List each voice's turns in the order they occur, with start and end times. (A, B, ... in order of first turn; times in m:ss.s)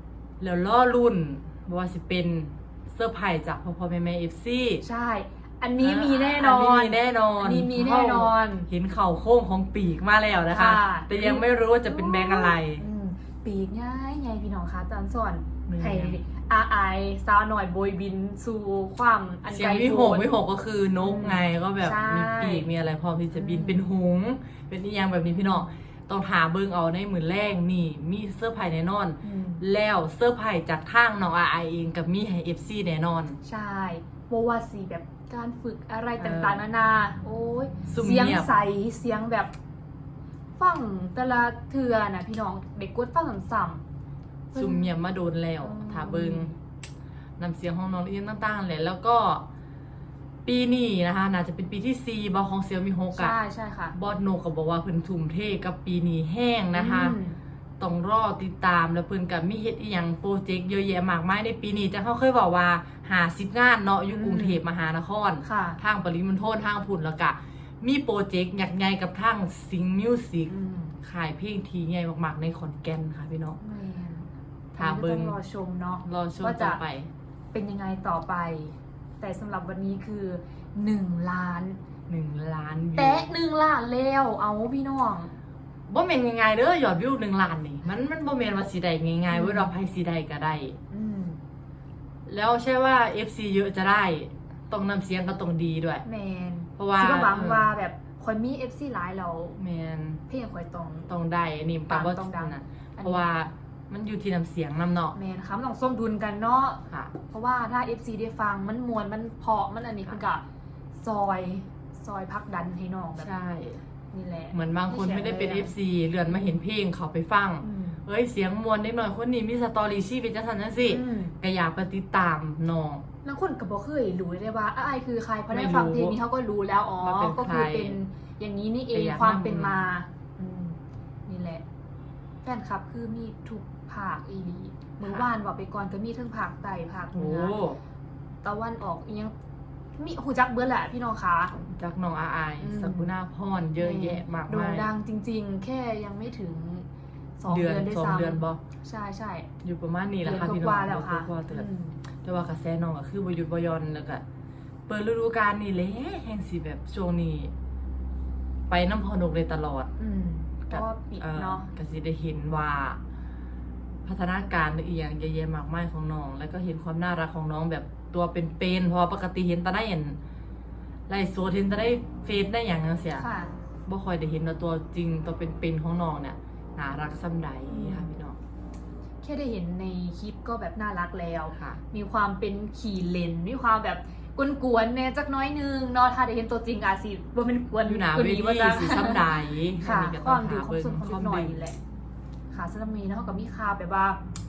0:00.4-0:04.8 A
0:04.8-0:08.7 B
0:05.8-0:12.8 A
0:10.5-0:20.3 B
0:15.7-0:16.2 A
0:19.5-0:33.4 A
0:21.0-0:22.7 B
0:23.3-0:23.8 B
0:25.3-0:25.7 B
0:29.2-0:29.6 B
0:33.4-0:39.5 B
0:36.2-0:36.6 A
0:37.9-0:38.5 A
0:40.6-0:43.8 B
0:44.5-0:44.9 B
0:44.5-0:46.5 A
0:45.6-0:46.6 B
0:47.4-0:49.4 A
0:50.4-0:53.3 A
0:53.1-0:54.0 B
0:53.9-0:57.2 A
0:56.7-0:57.4 B
0:57.8-1:10.5 A
1:04.1-1:04.6 B
1:05.4-1:05.8 B
1:10.5-1:11.0 B
1:11.0-1:13.6 A
1:13.6-1:16.8 B
1:14.8-1:15.4 A
1:16.0-1:17.1 A
1:17.5-1:21.8 B
1:22.1-1:23.3 A
1:23.0-1:25.3 B
1:25.9-1:30.8 A
1:29.3-1:29.7 B
1:30.9-1:31.4 B
1:32.3-1:36.0 A
1:36.0-1:39.6 B
1:36.8-1:37.7 A
1:39.6-1:40.2 A
1:40.3-1:41.1 B
1:41.1-1:45.2 A
1:41.9-1:43.2 B
1:45.1-1:50.4 B
1:51.0-1:53.3 B
1:53.2-1:53.8 A
1:54.1-1:55.7 B
1:54.5-2:03.0 A
1:56.3-1:56.6 B
1:57.6-1:58.0 B
2:00.9-2:01.4 B
2:03.2-2:11.6 B
2:05.5-2:06.2 A
2:07.0-2:08.0 A
2:08.9-2:09.9 A
2:12.4-2:17.6 B
2:17.1-2:17.8 A
2:18.4-2:19.3 B
2:20.0-2:21.5 B
2:21.5-2:24.9 A
2:22.6-2:23.1 B
2:23.8-2:26.9 B
2:27.4-2:29.5 B
2:27.5-2:28.6 A
2:29.6-2:31.7 A
2:30.2-2:32.0 B
2:32.2-2:34.2 A
2:34.9-2:37.5 A
2:38.7-2:39.9 A
2:40.0-2:41.7 B
2:40.7-2:43.0 A
2:44.0-2:50.2 A
2:51.1-2:53.2 A
2:53.2-2:53.5 B
2:53.9-2:58.4 A
2:57.7-2:58.1 B
2:59.2-3:11.8 B
3:01.5-3:01.8 A
3:07.8-3:11.6 A
3:12.5-3:14.2 B